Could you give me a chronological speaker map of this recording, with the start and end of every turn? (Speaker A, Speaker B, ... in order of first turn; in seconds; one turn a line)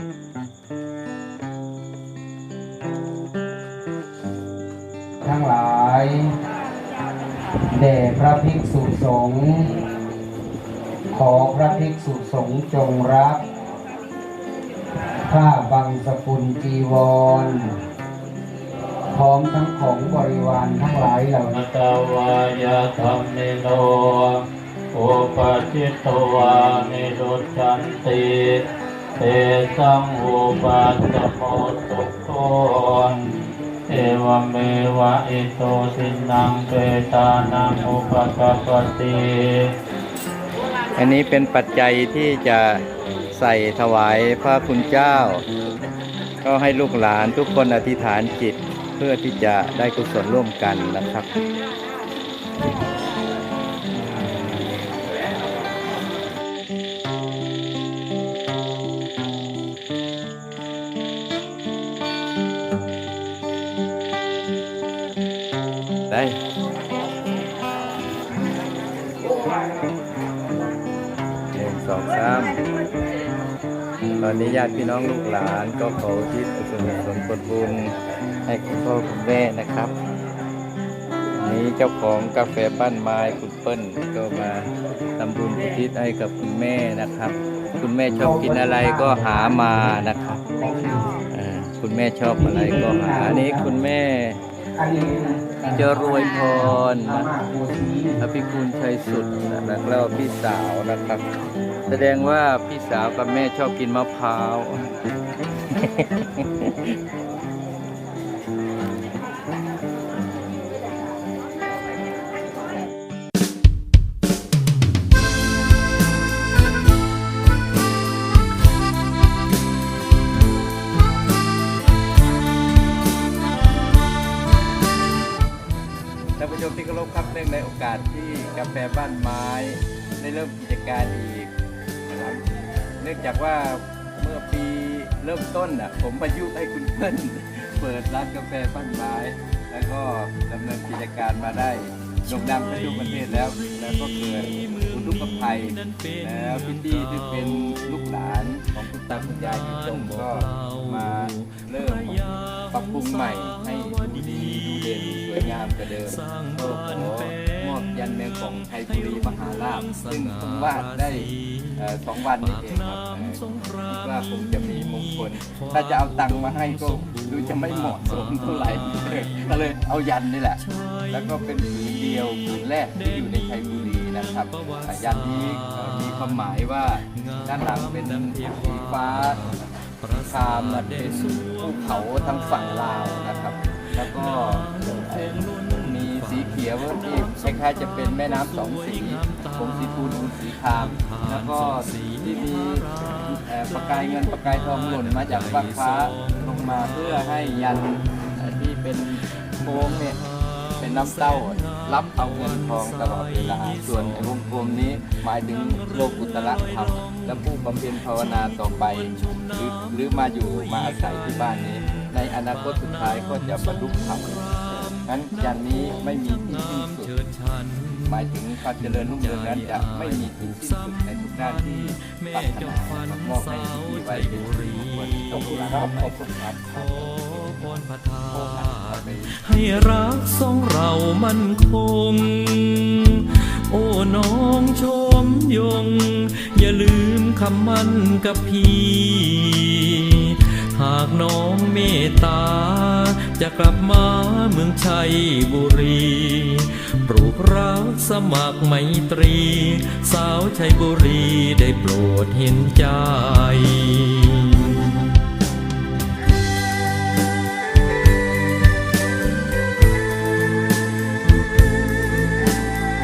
Speaker A: 5.2-6.4
Speaker A: 7.7-9.9
Speaker A: 11.1-13.4
Speaker A: 15.2-17.8
Speaker A: 19.1-21.6
Speaker B: 21.5-28.7
Speaker B: 29.2-33.3
Speaker B: 33.9-39.7
Speaker C: 40.9-42.8
Speaker C: 43.3-45.5
Speaker C: 46.4-51.3
Speaker C: 66.1-66.4
Speaker C: 71.5-72.6
Speaker C: 74.2-79.9
Speaker C: 81.3-90.4
Speaker A: 88.2-89.8
Speaker A: 90.5-91.2
Speaker C: 91.3-94.4
Speaker A: 92.4-93.7
Speaker A: 94.8-98.2
Speaker C: 95.7-97.3
Speaker C: 98.2-101.2
Speaker C: 101.9-104.9
Speaker C: 105.7-107.0
Speaker C: 126.4-131.5
Speaker C: 132.1-132.4
Speaker C: 133.0-179.4
Speaker D: 142.3-148.4
Speaker D: 149.0-169.5
Speaker D: 170.6-171.7
Speaker D: 172.6-197.4
Speaker C: 180.1-200.2
Speaker D: 198.3-198.6
Speaker D: 199.6-255.1
Speaker C: 200.8-214.4
Speaker C: 215.1-217.1
Speaker C: 218.0-230.2